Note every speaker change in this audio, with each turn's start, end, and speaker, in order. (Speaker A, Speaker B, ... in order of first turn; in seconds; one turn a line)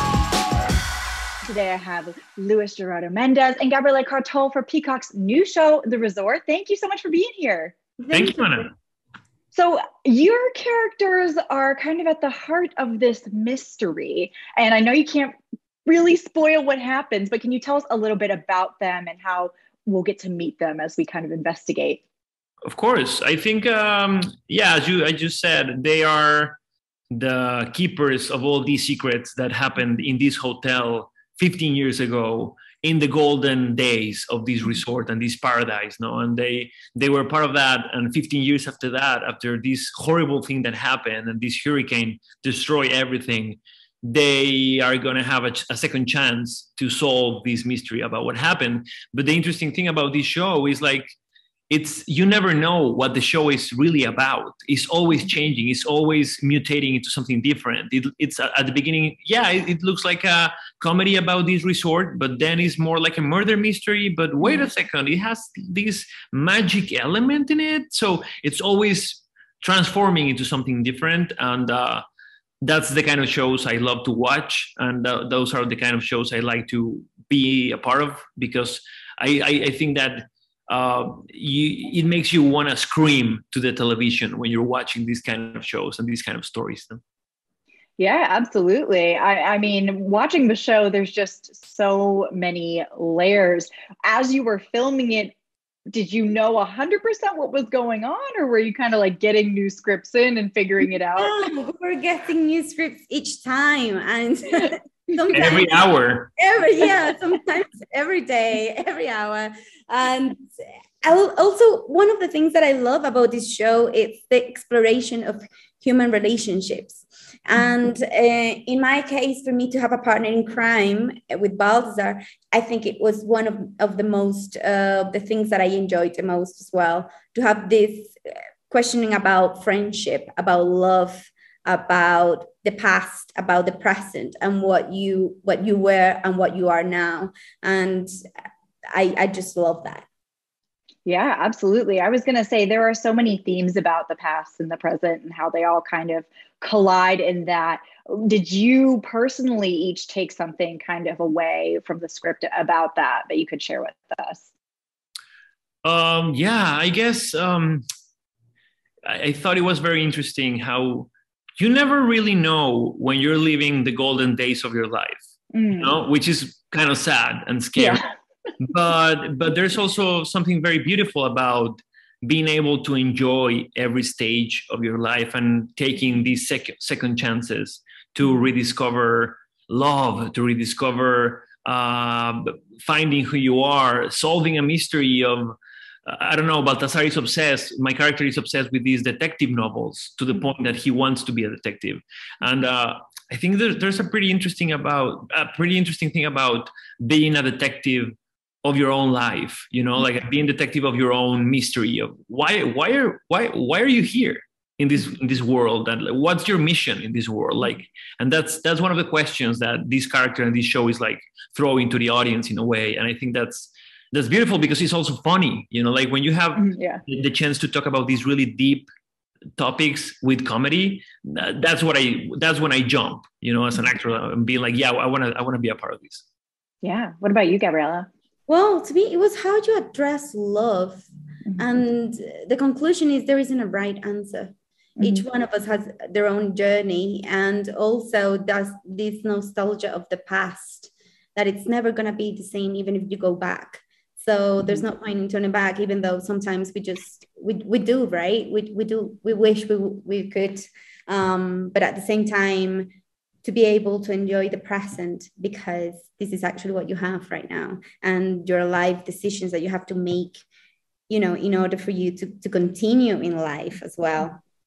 Speaker A: 1.4-7.8
Speaker B: 8.0-8.6
Speaker C: 8.1-8.7
Speaker A: 9.5-15.3
Speaker A: 15.9-22.0
Speaker C: 22.7-26.6
Speaker C: 27.1-51.1
Speaker C: 51.7-72.0
Speaker C: 72.6-87.0
Speaker A: 88.0-95.3
Speaker A: 95.9-101.3
Speaker B: 101.2-105.7
Speaker C: 105.3-106.3
Speaker B: 106.4-110.5
Speaker B: 111.0-128.2
Speaker B: 128.7-138.1
Speaker B: 138.9-140.1
Speaker A: 141.1-154.5
Speaker C: 155.8-157.8
Speaker C: 159.1-165.2
Speaker A: 165.5-166.0
Speaker C: 165.8-168.0
Speaker A: 167.8-168.0
Speaker C: 168.6-218.9
Speaker A: 216.6-217.0
Speaker C: 219.6-226.2
Speaker A: 226.8-228.1
Speaker B: 228.5-231.1
Speaker B: 231.6-252.9
Speaker B: 253.4-260.4
Speaker B: 261.1-264.4